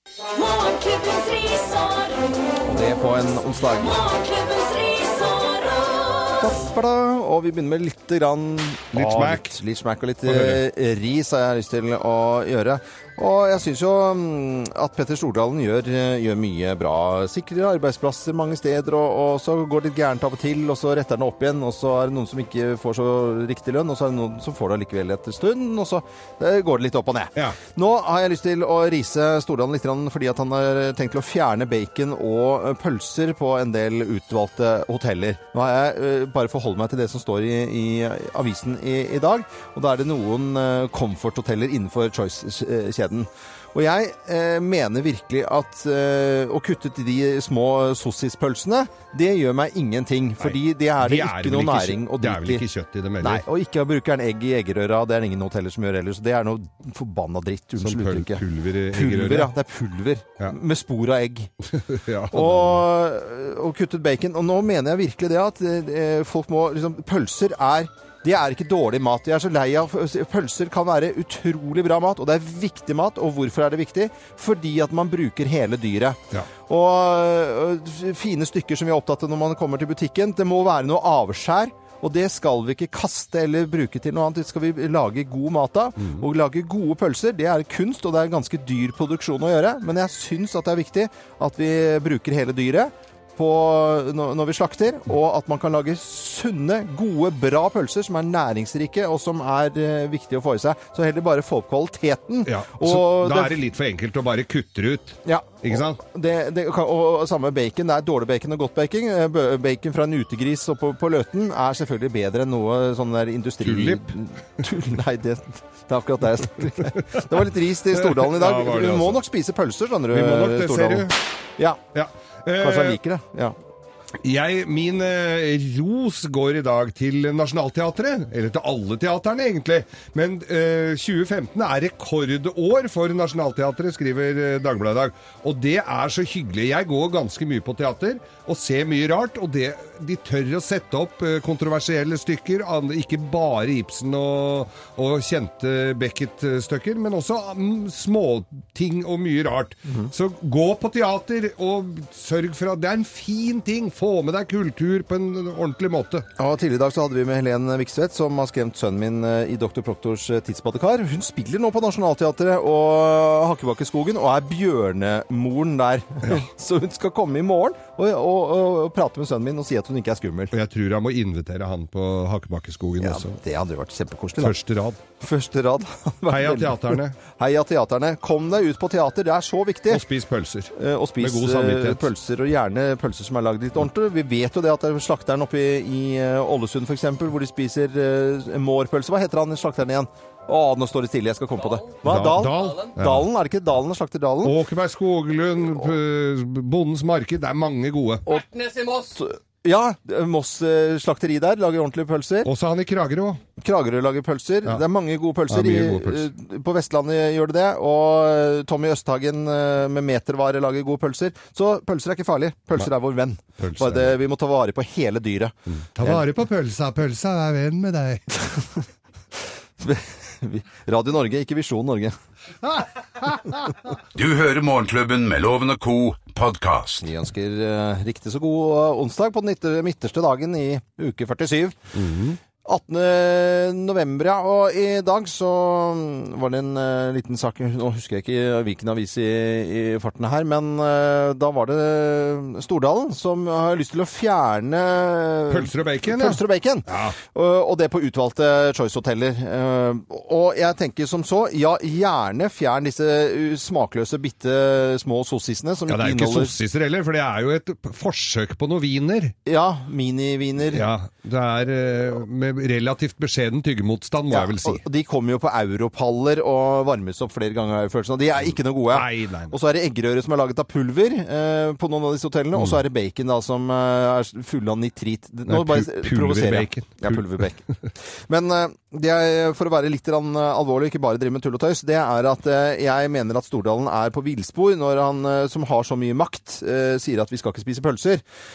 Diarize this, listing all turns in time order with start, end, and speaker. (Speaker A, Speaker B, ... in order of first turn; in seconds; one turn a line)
Speaker A: 0.3-2.5
Speaker B: 2.6-4.0
Speaker A: 3.8-6.5
Speaker B: 6.4-52.6
Speaker C: 8.9-9.6
Speaker C: 10.3-10.6
Speaker C: 50.4-53.4
Speaker B: 53.2-61.5
Speaker C: 57.8-59.5
Speaker C: 61.7-62.8
Speaker B: 62.3-103.6
Speaker C: 102.5-106.0
Speaker B: 105.2-121.8
Speaker C: 113.6-114.1
Speaker C: 117.9-119.2
Speaker C: 120.1-121.2
Speaker C: 121.9-123.0
Speaker B: 122.6-123.5
Speaker C: 124.2-156.3
Speaker B: 156.4-170.5
Speaker C: 170.5-173.4
Speaker B: 173.0-174.6
Speaker C: 174.4-175.0
Speaker B: 175.2-180.0
Speaker C: 176.3-177.2
Speaker C: 179.9-182.1
Speaker B: 180.8-194.6
Speaker C: 192.0-193.3
Speaker C: 194.4-198.3
Speaker B: 198.3-202.5
Speaker C: 202.4-203.4
Speaker B: 203.6-216.3
Speaker C: 205.5-206.3
Speaker C: 213.6-214.2
Speaker C: 215.9-218.4
Speaker B: 219.8-222.2
Speaker C: 222.6-223.7
Speaker D: 224.2-227.1
Speaker B: 227.0-231.8
Speaker C: 231.9-232.4
Speaker B: 232.7-256.6
Speaker C: 245.5-247.2
Speaker C: 255.9-259.3
Speaker B: 259.5-260.9
Speaker C: 260.7-264.8
Speaker B: 264.3-277.6
Speaker C: 268.9-269.6
Speaker C: 275.5-277.2
Speaker B: 278.3-288.2